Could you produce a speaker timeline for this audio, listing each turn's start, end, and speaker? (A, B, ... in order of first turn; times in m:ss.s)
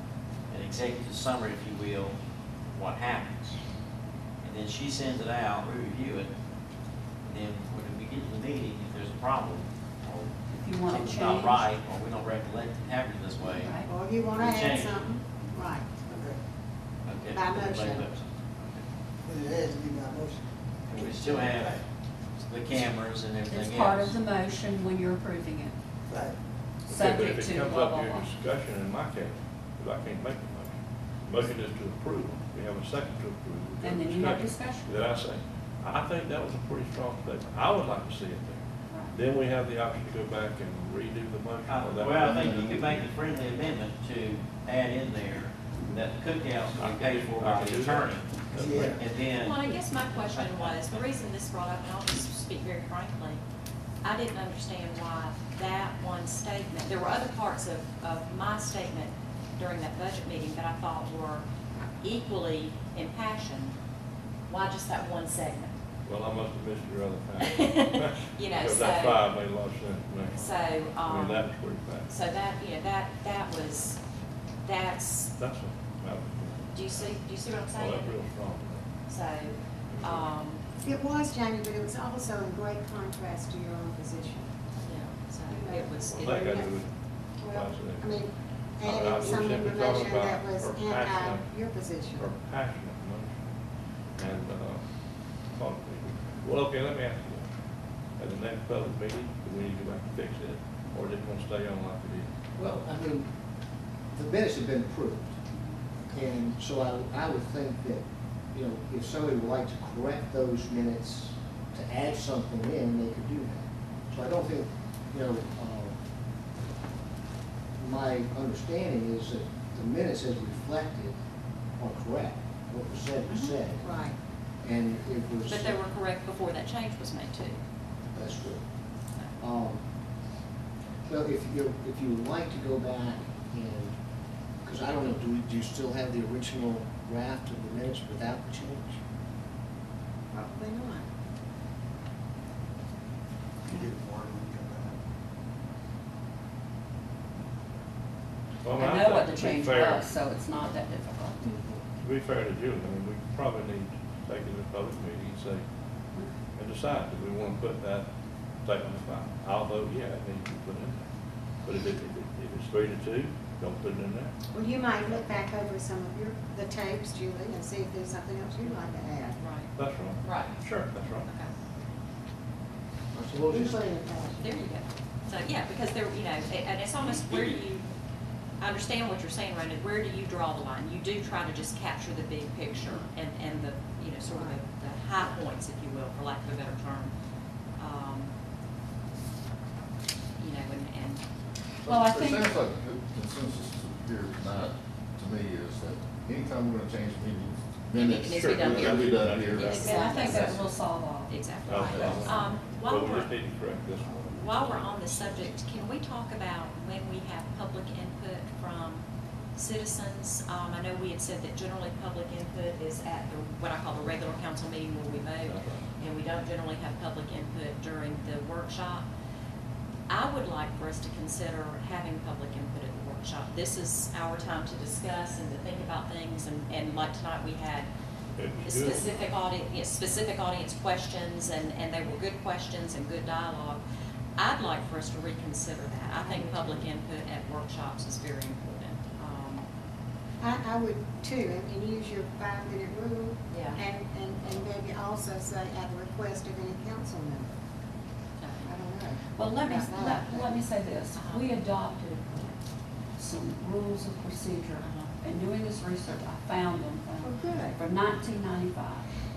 0:00.5-0:02.2 A
0:02.7-0:03.6 A
0:04.4-0:06.3 A
0:07.3-0:13.8 A
0:10.5-0:11.7 B
0:13.5-0:13.9 B
0:13.8-0:16.1 C
0:14.3-0:15.0 A
0:16.0-0:16.4 D
0:17.1-0:18.8 A
0:17.2-0:18.1 C
0:19.2-0:21.8 D
0:21.0-0:21.8 A
0:22.4-0:24.2 A
0:23.5-0:25.8 B
0:26.1-0:26.4 D
0:26.9-0:28.3 B
0:26.9-0:30.8 E
0:31.3-0:42.8 E
0:33.8-0:34.9 B
0:41.7-0:49.6 A
0:42.2-0:43.1 F
0:46.7-0:49.1 E
0:48.6-0:49.0 D
0:49.3-0:53.4 G
0:50.4-0:51.0 A
0:54.0-1:01.4 G
1:02.0-1:03.8 G
1:04.5-1:05.7 G
1:06.1-1:12.1 E
1:07.4-1:09.2 G
1:10.3-1:11.5 G
1:12.1-1:14.0 G
1:14.6-1:15.3 G
1:15.4-1:18.8 E
1:16.7-1:18.1 G
1:19.1-1:20.6 G
1:19.9-1:20.3 E
1:20.8-1:24.9 C
1:24.8-1:26.8 G
1:25.5-1:26.7 C
1:26.0-1:28.2 E
1:27.4-1:32.3 C
1:28.8-1:31.5 E
1:32.2-1:33.5 E
1:34.2-1:34.8 E
1:35.5-1:37.5 E
1:38.2-1:42.3 E
1:42.6-1:43.3 H
1:44.1-1:45.4 H
1:46.1-1:56.0 H
1:57.8-2:01.2 H
2:01.8-2:04.0 H
2:03.3-2:03.6 G
2:03.8-2:04.2 C
2:04.6-2:05.8 H
2:05.5-2:07.6 G
2:08.1-2:08.7 H
2:09.4-2:09.8 H
2:11.1-2:14.0 H
2:14.6-2:19.0 H
2:20.3-2:21.1 C
2:23.7-2:25.0 D
2:28.6-2:30.0 E
2:28.8-2:31.4 B
2:32.0-2:35.6 E
2:36.6-2:38.1 E
2:38.6-2:41.1 E
2:41.6-2:44.3 E
2:44.5-2:49.4 C
2:49.4-2:49.7 G
2:49.8-2:51.3 E
2:50.2-2:50.6 G
2:51.3-2:51.5 G
2:53.1-2:53.9 H
2:53.4-2:54.5 C
2:54.4-2:57.9 G
2:58.6-3:07.1 G
3:04.2-3:04.6 C
3:07.8-3:08.3 G
3:10.4-3:11.2 G
3:11.8-3:20.6 F
3:11.9-3:12.6 B
3:17.9-3:20.6 G
3:18.1-3:20.6 E
3:19.7-3:22.2 B
3:21.3-3:23.3 G
3:21.7-3:25.1 E
3:21.7-3:22.6 F
3:24.3-3:39.1 G
3:35.4-3:35.9 E
3:40.1-3:47.9 G
3:48.4-3:49.3 E
3:48.6-3:53.8 G
3:54.4-3:59.7 G
3:56.2-3:56.9 C
4:00.4-4:07.5 C
4:03.5-4:03.8 G
4:08.4-4:08.7 G
4:08.6-4:10.5 C
4:09.4-4:12.6 B
4:11.2-4:11.5 G
4:13.2-4:19.1 B
4:14.8-4:15.1 G
4:17.2-4:17.8 C